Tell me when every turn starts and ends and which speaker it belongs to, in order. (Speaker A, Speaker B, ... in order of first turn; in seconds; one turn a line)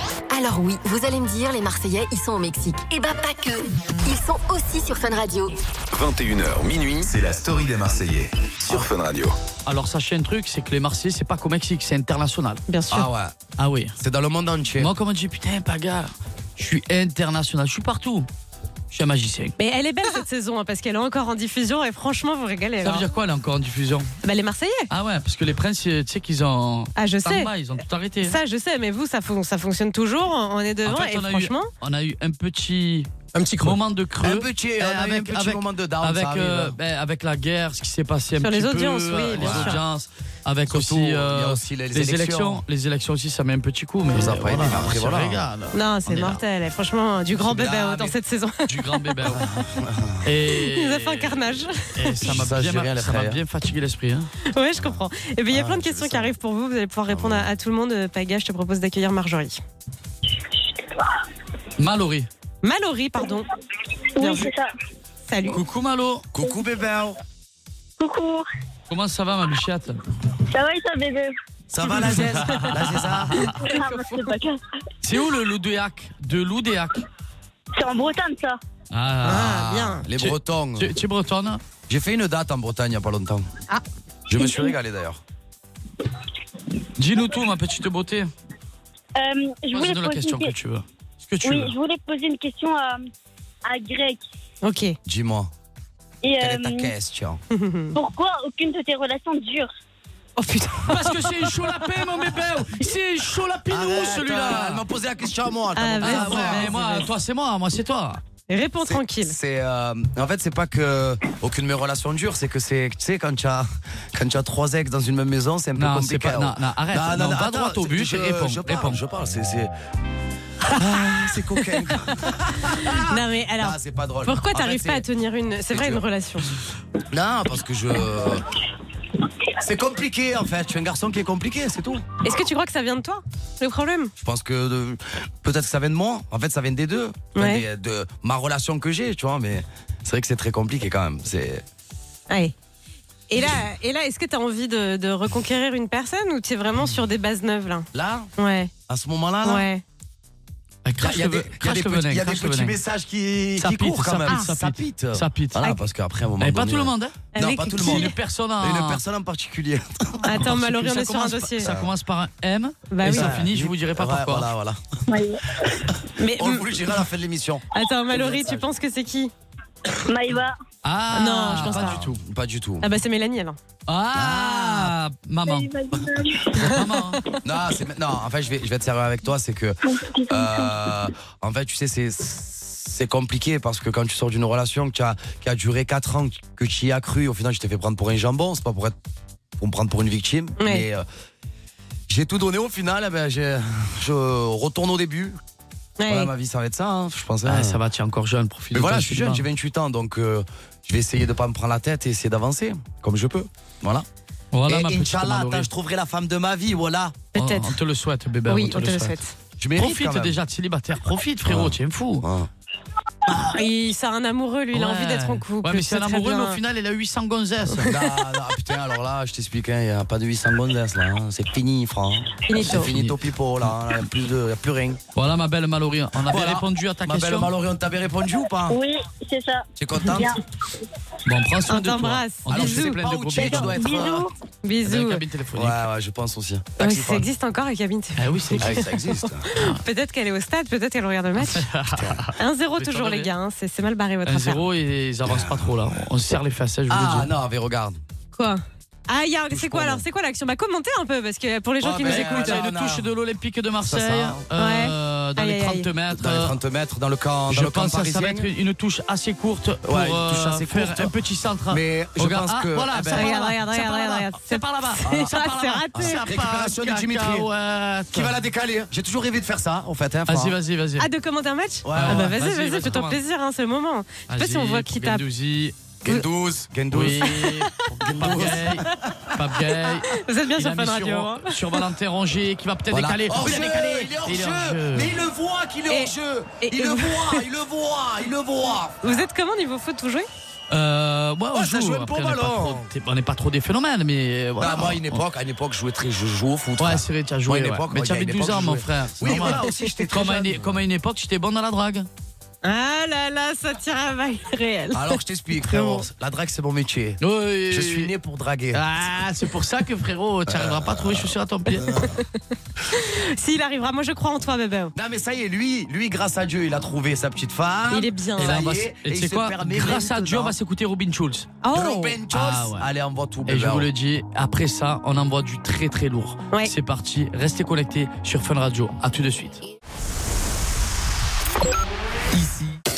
Speaker A: 0.3-5.6
Speaker B: 5.9-9.4
Speaker C: 9.7-12.6
Speaker D: 12.7-13.1
Speaker E: 12.9-13.4
Speaker C: 13.6-14.0
Speaker E: 14.0-14.9
Speaker C: 14.8-18.3
Speaker C: 18.9-19.6
Speaker D: 19.6-23.1
Speaker C: 22.8-24.1
Speaker D: 24.2-24.9
Speaker C: 24.9-28.4
Speaker D: 27.0-27.5
Speaker D: 28.2-31.7
Speaker C: 30.9-46.4
Speaker E: 34.2-36.8
Speaker D: 38.4-39.8
Speaker E: 39.4-39.8
Speaker E: 40.7-42.6
Speaker E: 44.1-45.5
Speaker D: 45.7-49.6
Speaker E: 47.4-48.1
Speaker C: 48.7-49.6
Speaker E: 49.3-50.3
Speaker C: 50.2-54.3
Speaker D: 50.6-52.3
Speaker E: 52.2-53.4
Speaker D: 54.5-59.6
Speaker E: 54.8-56.3
Speaker E: 57.1-57.5
Speaker F: 60.5-61.2
Speaker C: 61.8-62.3
Speaker D: 62.6-63.5
Speaker F: 64.2-64.7
Speaker D: 64.2-64.5
Speaker D: 65.3-65.6
Speaker C: 65.5-66.2
Speaker E: 66.3-67.2
Speaker F: 68.0-68.5
Speaker C: 68.9-70.0
Speaker F: 70.4-71.3
Speaker E: 71.7-73.5
Speaker C: 71.9-73.5
Speaker D: 72.4-72.8
Speaker D: 73.4-74.3
Speaker F: 73.4-74.6
Speaker C: 75.0-77.1
Speaker F: 77.7-78.6
Speaker C: 78.9-79.5
Speaker D: 79.2-80.1
Speaker E: 79.2-80.9
Speaker C: 80.2-81.6
Speaker E: 81.9-83.5
Speaker E: 84.3-85.2
Speaker C: 87.0-88.3
Speaker F: 89.2-90.5
Speaker C: 89.7-91.7
Speaker F: 91.4-93.1
Speaker F: 93.7-94.2
Speaker D: 94.6-95.0
Speaker E: 95.1-95.5
Speaker F: 96.2-96.9
Speaker E: 96.4-97.4
Speaker D: 97.5-98.0
Speaker F: 98.0-99.7
Speaker D: 100.4-101.9
Speaker C: 100.9-104.8
Speaker E: 103.7-106.8
Speaker D: 105.8-107.1
Speaker C: 106.0-108.2
Speaker D: 108.5-109.4
Speaker E: 108.8-119.7
Speaker C: 115.8-119.0
Speaker E: 120.8-125.0
Speaker D: 121.4-122.0
Speaker D: 122.6-126.5
Speaker E: 125.7-126.0
Speaker E: 127.1-128.5
Speaker E: 129.5-132.1
Speaker D: 132.2-134.1
Speaker E: 134.2-141.6
Speaker D: 137.3-137.7
Speaker D: 142.3-142.5
Speaker D: 143.3-148.7
Speaker E: 147.9-148.3
Speaker E: 148.9-149.7
Speaker D: 149.4-149.8
Speaker C: 150.8-152.8
Speaker E: 151.0-160.5
Speaker C: 153.6-155.8
Speaker C: 156.4-157.2
Speaker D: 157.3-158.1
Speaker C: 157.8-159.0
Speaker D: 160.2-161.7
Speaker C: 160.3-164.5
Speaker E: 161.6-161.9
Speaker D: 162.9-163.4
Speaker E: 163.0-164.8
Speaker F: 165.1-165.9
Speaker E: 165.7-168.7
Speaker D: 166.2-166.8
Speaker D: 167.7-169.3
Speaker F: 170.0-170.6
Speaker C: 170.8-172.2
Speaker D: 171.1-172.0
Speaker E: 171.6-172.9
Speaker D: 172.8-173.6
Speaker C: 173.9-175.7
Speaker E: 174.1-174.9
Speaker F: 175.5-176.7
Speaker C: 176.6-177.3
Speaker E: 177.3-188.9
Speaker F: 179.9-180.9
Speaker E: 189.6-191.1
Speaker D: 190.6-190.9
Speaker E: 192.1-195.4
Speaker D: 196.0-196.3
Speaker E: 196.1-197.8
Speaker C: 197.4-199.5
Speaker E: 198.7-204.1
Speaker C: 204.5-205.7
Speaker E: 204.7-207.2
Speaker D: 207.3-207.7
Speaker C: 207.3-209.2
Speaker D: 208.5-209.3
Speaker E: 209.6-210.4
Speaker C: 209.8-212.2
Speaker E: 211.4-212.5
Speaker D: 213.5-216.6
Speaker C: 214.7-217.9
Speaker E: 217.8-225.0
Speaker D: 222.5-222.9
Speaker C: 222.6-223.2
Speaker C: 225.2-227.5
Speaker E: 226.3-228.8
Speaker F: 228.7-230.4
Speaker E: 229.8-230.3
Speaker C: 231.2-233.9
Speaker D: 231.7-233.0
Speaker E: 232.5-234.3
Speaker F: 233.4-234.3
Speaker D: 234.6-235.2
Speaker C: 234.8-235.8
Speaker E: 235.5-237.3
Speaker D: 236.8-241.7
Speaker C: 238.2-238.9
Speaker E: 238.6-239.5
Speaker C: 239.6-239.8
Speaker C: 241.4-243.3
Speaker E: 241.9-242.2
Speaker D: 242.4-244.6
Speaker C: 244.2-247.3
Speaker E: 245.2-245.8
Speaker E: 246.9-248.0
Speaker D: 248.3-252.7
Speaker E: 249.5-250.0
Speaker E: 251.8-253.1
Speaker C: 252.0-256.6
Speaker E: 253.8-254.4
Speaker D: 254.6-255.9
Speaker E: 256.1-258.5
Speaker C: 257.5-268.4
Speaker E: 259.9-261.1
Speaker E: 261.7-263.3
Speaker D: 263.1-266.3
Speaker E: 265.0-265.3
Speaker E: 265.9-267.5
Speaker E: 268.1-270.6
Speaker C: 270.3-271.1
Speaker D: 271.0-275.2
Speaker E: 271.8-272.3
Speaker C: 271.9-273.2
Speaker C: 274.3-275.8
Speaker E: 276.0-277.5
Speaker C: 276.9-285.2
Speaker D: 277.2-278.7
Speaker E: 278.0-279.2
Speaker D: 279.8-281.6
Speaker E: 282.9-289.2
Speaker D: 285.9-287.4
Speaker D: 289.0-290.3
Speaker C: 290.7-295.2
Speaker E: 291.5-292.9
Speaker E: 294.6-300.8
Speaker C: 296.8-302.1
Speaker D: 299.2-299.9
Speaker D: 302.6-306.1
Speaker E: 304.9-308.8
Speaker C: 307.2-308.1
Speaker C: 308.7-312.0
Speaker E: 310.5-312.2
Speaker D: 311.9-312.2
Speaker D: 312.9-314.9
Speaker E: 314.9-320.6
Speaker D: 317.9-318.6
Speaker C: 318.4-321.6
Speaker D: 321.6-322.2
Speaker E: 321.7-323.9
Speaker C: 322.3-322.9
Speaker C: 323.4-329.6
Speaker B: 332.4-332.7